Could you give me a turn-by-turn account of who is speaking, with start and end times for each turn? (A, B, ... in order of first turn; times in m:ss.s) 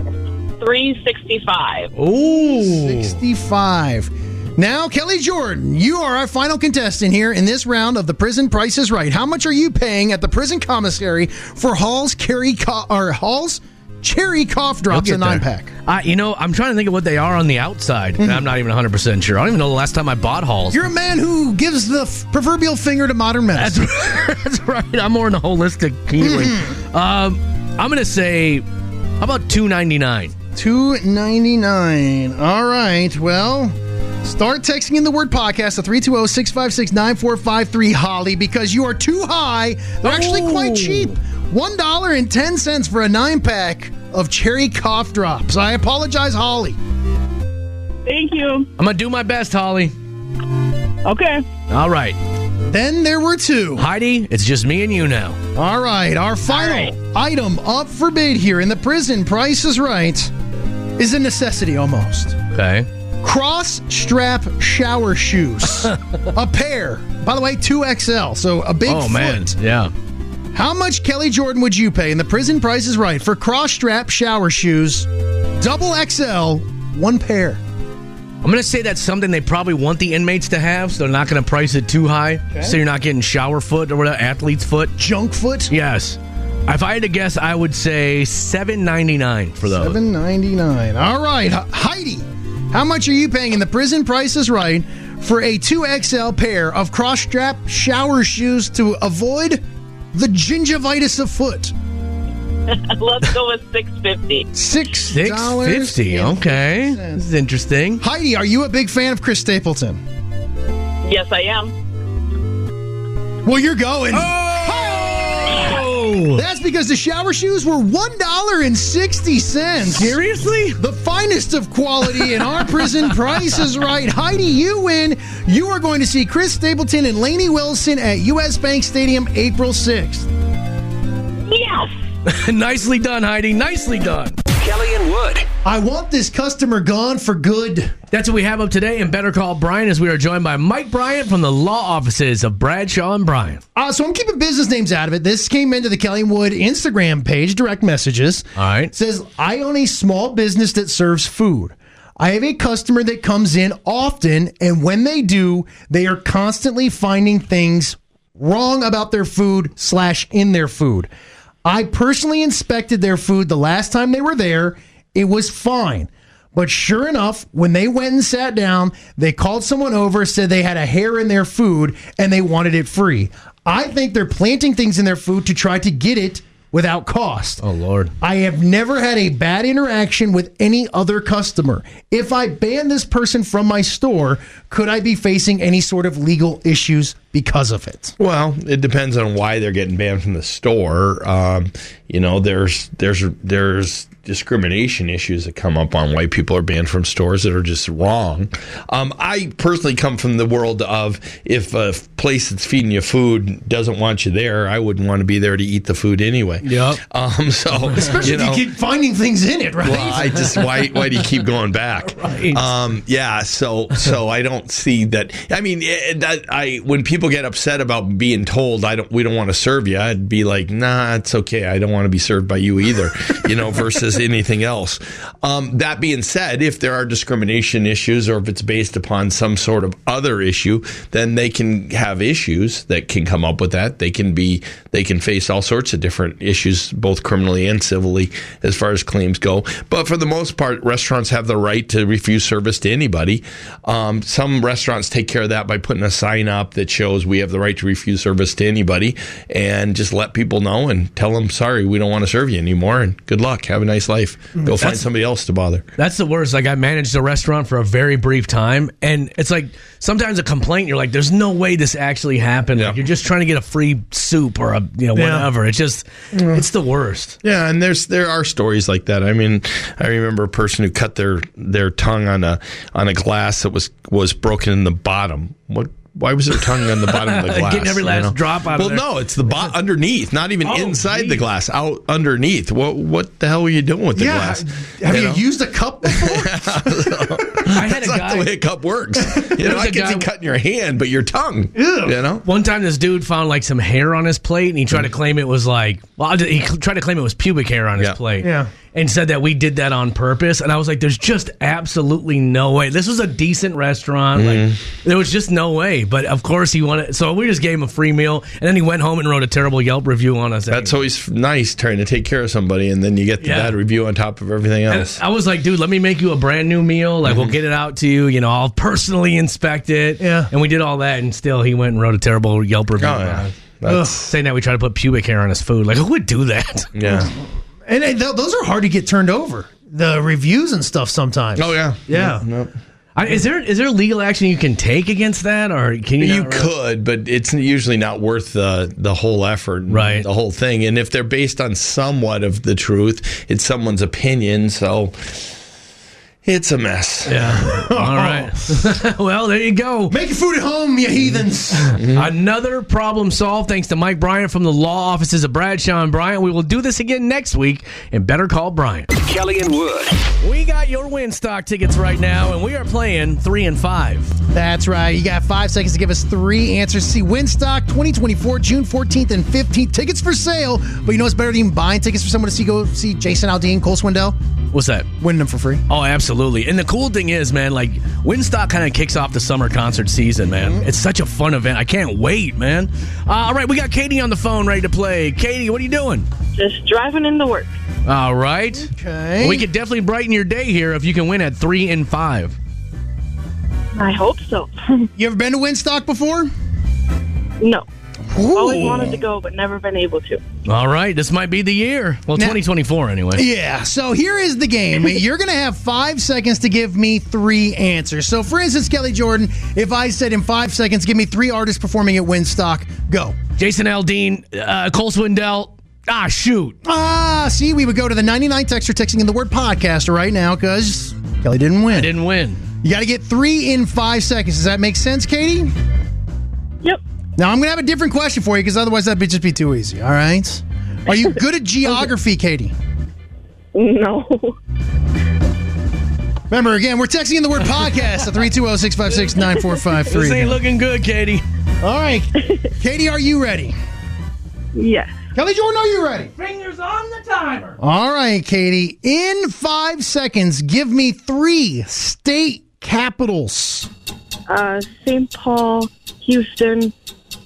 0:00.6-0:01.9 A
0:02.0-0:03.2 B
0:02.6-0:15.7 C
0:14.9-0:20.8 B
0:18.2-0:18.5 C
0:20.7-0:23.8 C
0:23.6-0:28.6 B
0:26.2-0:26.8 C
0:29.2-0:30.3 B
0:30.6-0:46.8 C
0:40.0-0:41.2 B
0:48.0-0:48.7 A
0:48.8-0:49.9 B
0:51.0-0:51.4 A
0:51.7-0:52.2 B
0:52.7-0:53.9 C
0:53.8-0:55.4 B
0:55.6-1:00.3 C
0:56.5-0:56.9 A
1:01.0-1:02.4 C
1:02.5-1:02.9 B
1:03.2-1:09.5 C
1:05.8-1:06.2 B
1:08.9-1:09.9 B
1:10.5-1:15.1 C
1:15.6-1:17.6 C
1:18.4-1:25.0 B
1:22.5-1:22.8 C
1:25.0-1:25.7 C
1:25.7-1:30.0 B
1:29.6-1:41.7 C
1:42.7-1:44.5 A
1:44.5-1:47.3 C
1:45.1-1:48.0 B
1:48.0-1:50.0 C
1:51.0-1:51.7 A
1:53.4-2:00.2 C
1:54.1-1:56.4 B
1:59.9-2:00.8 B
2:00.8-2:10.3 C
2:02.2-2:03.6 B
2:11.4-2:11.9 A
2:12.2-2:14.4 B
2:14.5-2:15.5 D
2:15.6-2:18.0 C
2:18.1-2:23.6 B
2:23.8-2:41.1 C
2:28.6-2:28.9 B
2:41.6-2:57.6 C
2:57.6-2:58.1 B
2:58.2-3:08.2 C
3:08.2-3:28.7 E
3:26.6-3:27.0 B
3:27.9-3:30.6 C
3:29.8-4:15.8 E
3:32.0-3:32.6 B
4:16.0-4:27.4 B
4:25.2-4:25.5 C
4:27.4-4:45.4 E
4:37.0-4:39.1 B
4:40.6-4:41.4 B
4:44.1-4:48.1 C
4:46.1-4:52.4 E
4:47.7-4:48.5 B
4:49.2-4:49.5 C
4:49.6-4:50.3 B
4:51.8-4:52.2 C
4:52.4-5:11.0 B
4:58.4-4:58.7 C
5:04.4-5:04.8 E
5:10.7-5:15.2 E
5:13.4-5:13.8 B
5:14.9-5:23.5 B
5:17.2-5:17.6 E
5:20.2-5:20.5 C
5:23.0-5:24.2 E
5:23.9-5:24.3 C
5:24.2-5:26.9 B
5:27.0-5:27.3 E
5:27.0-5:27.3 C
5:27.9-5:32.4 C
5:31.6-5:32.7 E
5:33.2-5:36.7 B
5:36.2-5:45.5 E
5:39.9-5:40.3 B
5:46.4-5:47.7 E
5:47.3-5:50.2 B
5:47.7-5:48.6 C
5:50.1-5:52.0 C
5:51.8-5:59.1 B
5:52.0-5:52.3 E
5:59.1-6:00.2 D
6:00.4-6:04.4 B
6:04.5-6:14.4 C
6:14.7-6:15.1 B
6:15.2-6:15.8 C
6:15.9-6:26.3 B
6:20.6-6:20.9 C
6:26.6-6:27.7 A
6:28.1-6:28.9 B
6:28.8-6:29.7 C
6:29.4-6:32.6 B
6:34.0-6:35.1 A
6:35.2-6:36.5 C
6:38.3-6:39.2 C
6:38.5-6:40.4 A
6:40.7-6:43.4 B
6:42.3-6:42.6 C
6:43.3-6:53.4 C
6:53.6-6:56.8 B
6:56.8-7:02.1 C
7:01.9-7:02.6 B
7:02.8-7:05.7 C
7:07.4-7:12.7 C
7:13.7-7:14.6 A
7:16.5-7:20.6 C
7:19.4-7:19.9 A
7:20.1-7:21.4 B
7:21.8-7:23.8 C
7:24.8-7:25.2 A
7:25.4-7:26.3 C
7:26.4-7:27.8 B
7:27.8-7:33.9 C
7:34.5-7:36.9 A